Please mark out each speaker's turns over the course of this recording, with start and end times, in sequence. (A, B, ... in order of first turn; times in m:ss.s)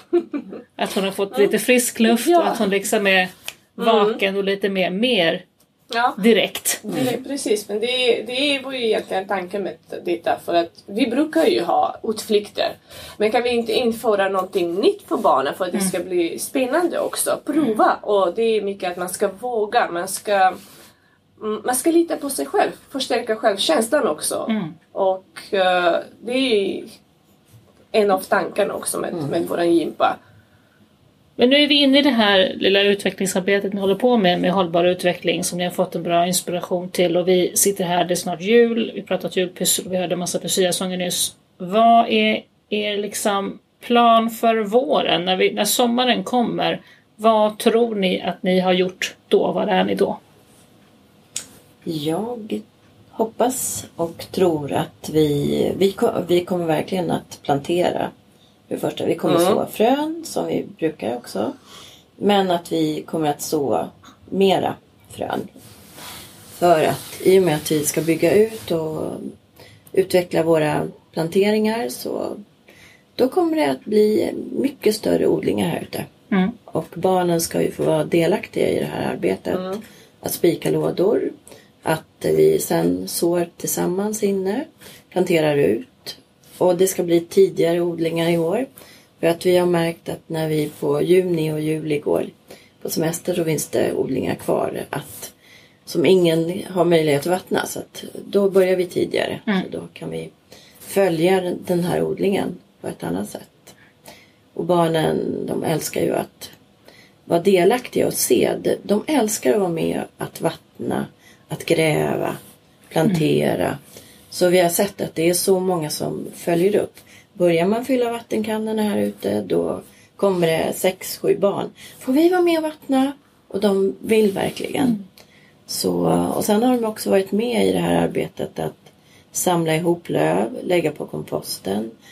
0:00.8-0:05.4 A
0:02.1-0:02.6 B
0:03.8-0:04.2 B
0:05.9-0:06.2 B
0:06.2-0:06.9 A
0:06.9-0:20.6 B
0:06.9-0:07.2 C
0:21.4-0:26.9 B
0:24.5-0:24.8 A
0:27.9-0:30.2 B
0:31.4-0:50.2 A
0:51.8-0:58.1 C
0:58.7-1:01.5 C
0:59.3-0:59.6 B
1:02.2-1:05.5 C
1:06.5-1:09.3 C
1:09.9-1:12.4 C
1:13.2-1:16.1 C
1:16.7-1:28.7 C
1:19.5-1:19.8 B
1:29.2-1:35.3 C
1:35.8-1:40.3 C
1:40.8-1:43.7 C
1:44.5-1:46.5 C
1:47.3-1:52.4 C
1:52.9-1:53.8 C
1:54.3-2:05.0 C
2:05.7-2:11.9 C